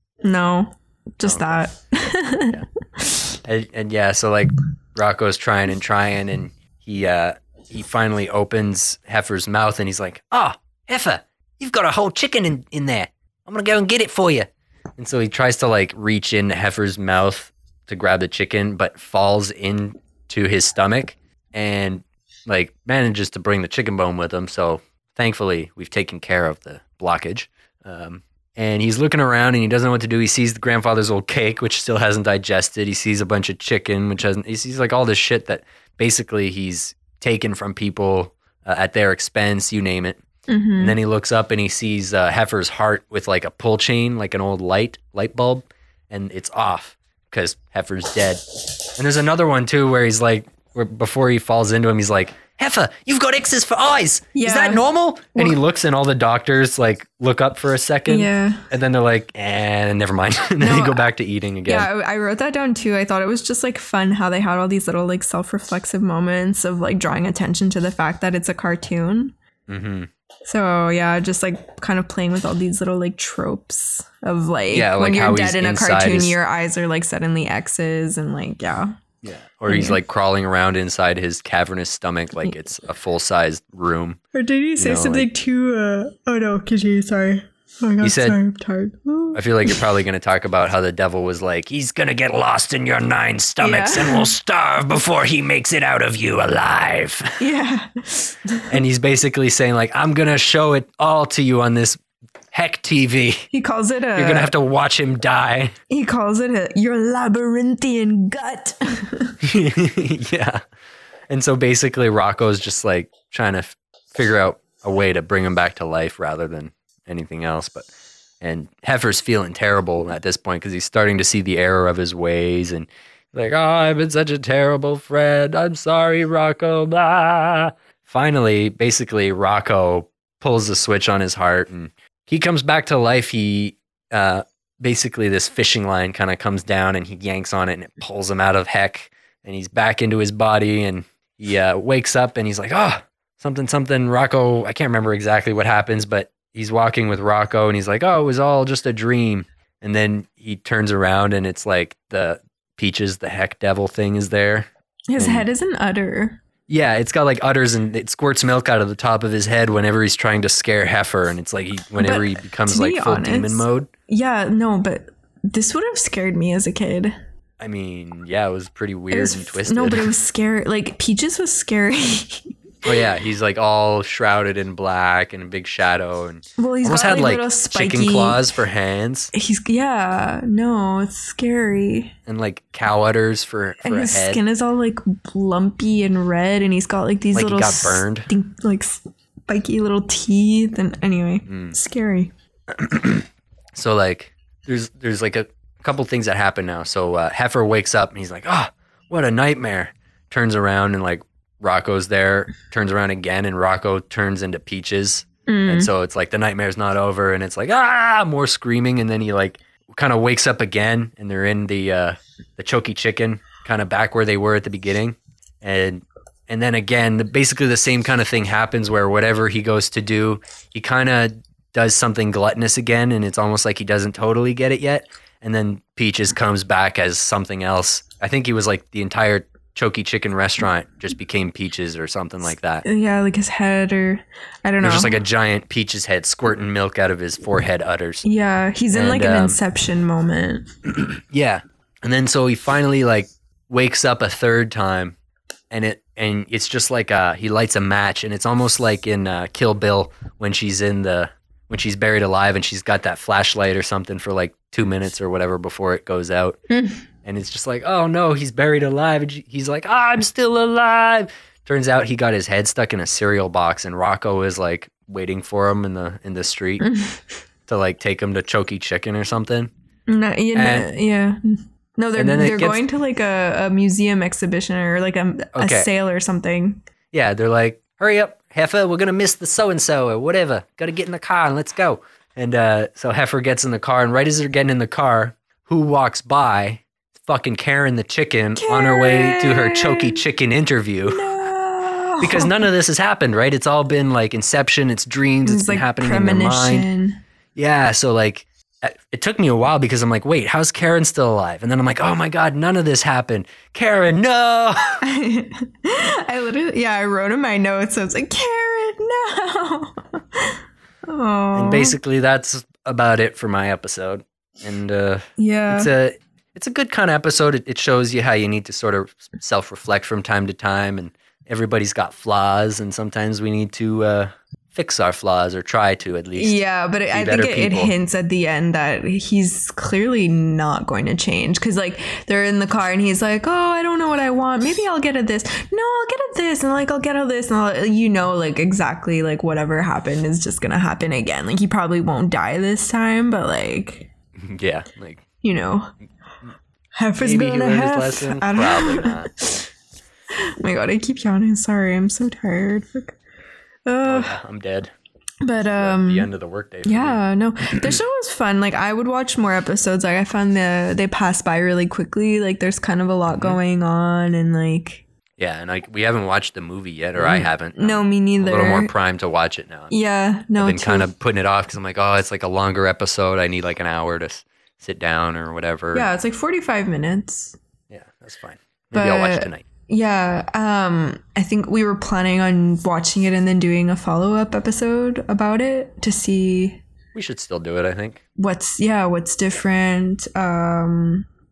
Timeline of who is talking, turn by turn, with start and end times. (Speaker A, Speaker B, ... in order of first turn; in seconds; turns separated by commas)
Speaker A: 0.2-3.1, Speaker B: 1.2-1.6, Speaker B: 3.4-40.2, Speaker A: 40.5-41.0, Speaker B: 40.8-48.4, Speaker B: 49.0-61.9, Speaker A: 54.3-55.5, Speaker A: 58.1-58.6, Speaker A: 60.6-61.1, Speaker A: 61.6-69.3, Speaker B: 69.7-70.1, Speaker A: 70.5-78.9, Speaker B: 74.7-76.3, Speaker B: 79.2-84.2, Speaker A: 79.7-80.0, Speaker A: 84.3-89.8, Speaker B: 84.8-85.3, Speaker B: 88.0-88.4, Speaker B: 89.3-97.4, Speaker A: 93.6-94.3, Speaker A: 97.4-98.7, Speaker B: 98.7-102.0, Speaker B: 102.5-103.5, Speaker A: 103.5-104.5, Speaker B: 104.2-105.7, Speaker A: 105.9-109.3, Speaker B: 109.4-110.6, Speaker B: 111.3-117.9, Speaker B: 118.4-155.5, Speaker A: 155.1-156.4, Speaker B: 156.7-163.9, Speaker A: 162.0-167.1, Speaker B: 167.6-170.1, Speaker A: 169.1-172.5, Speaker B: 172.8-179.3, Speaker A: 176.6-178.4, Speaker A: 179.3-182.1, Speaker B: 182.3-184.4, Speaker A: 183.8-192.3, Speaker B: 187.3-188.3, Speaker B: 191.5-191.7, Speaker B: 192.7-232.8, Speaker A: 205.5-205.9, Speaker A: 232.8-235.2, Speaker B: 234.8-238.2, Speaker A: 238.2-240.7, Speaker B: 238.9-239.6, Speaker B: 241.1-245.2, Speaker B: 245.7-256.6, Speaker A: 256.7-257.0, Speaker B: 257.2-266.8, Speaker A: 266.8-267.2, Speaker B: 267.7-269.7, Speaker A: 270.1-271.4, Speaker B: 270.5-270.9, Speaker A: 272.0-276.8, Speaker B: 272.1-272.8, Speaker B: 275.5-275.9, Speaker B: 277.1-291.3, Speaker A: 288.6-290.2, Speaker A: 291.1-292.6, Speaker B: 292.2-296.9, Speaker A: 295.4-297.2, Speaker B: 297.6-305.0, Speaker A: 305.0-311.9, Speaker B: 311.5-326.6, Speaker A: 315.4-315.9, Speaker A: 326.4-344.1, Speaker B: 327.1-327.9, Speaker B: 344.4-345.2, Speaker A: 345.4-345.9, Speaker A: 347.0-349.6, Speaker B: 347.2-349.4, Speaker A: 350.4-353.1, Speaker A: 353.9-354.4, Speaker B: 354.0-354.9, Speaker A: 355.4-356.3, Speaker B: 355.7-357.2, Speaker A: 356.8-365.0, Speaker B: 363.3-363.6, Speaker B: 365.4-369.9, Speaker A: 367.2-368.9, Speaker A: 369.9-371.1, Speaker B: 370.6-376.1, Speaker A: 375.9-377.6, Speaker B: 377.9-379.6, Speaker A: 378.9-386.8, Speaker B: 387.1-388.2, Speaker A: 388.4-391.3